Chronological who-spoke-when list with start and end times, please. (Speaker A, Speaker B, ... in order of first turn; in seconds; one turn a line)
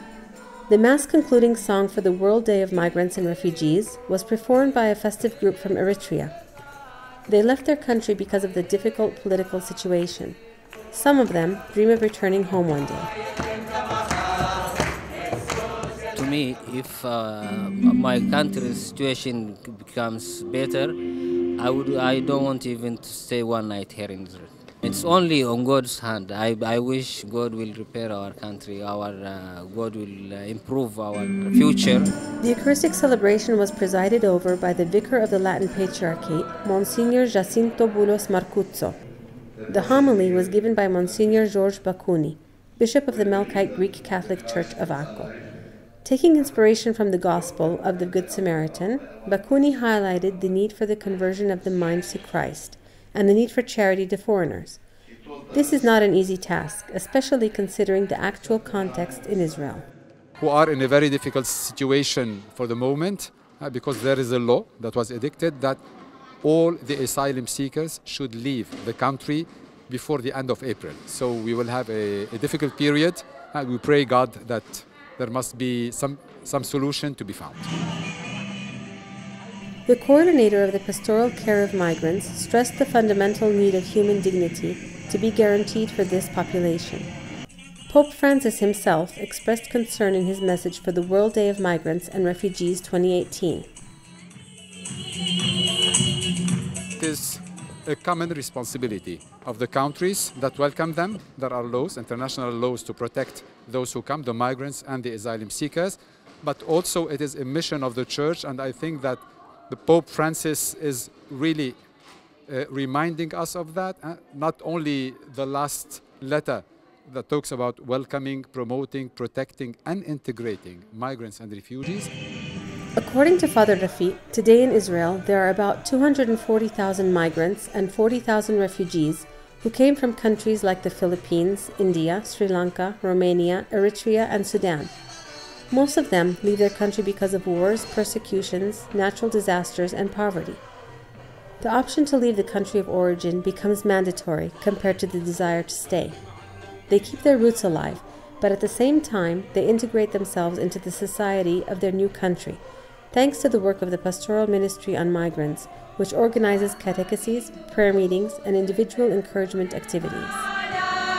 Speaker A: 0.7-6.3
Speaker A: 7.3-10.4
Speaker A: 10.9-13.1
Speaker B: 16.1-21.0
Speaker B: 21.6-32.1
Speaker A: 32.4-39.0
Speaker A: 39.7-45.3
Speaker A: 46.0-54.8
Speaker A: 55.5-59.9
Speaker C: 60.4-65.8
Speaker C: 66.4-77.7
Speaker A: 79.9-87.1
Speaker A: 87.9-93.7
Speaker C: 97.0-111.8
Speaker C: 112.5-122.1
Speaker A: 123.0-134.9
Speaker A: 135.7-140.6
Speaker A: 141.6-146.2
Speaker A: 146.9-160.5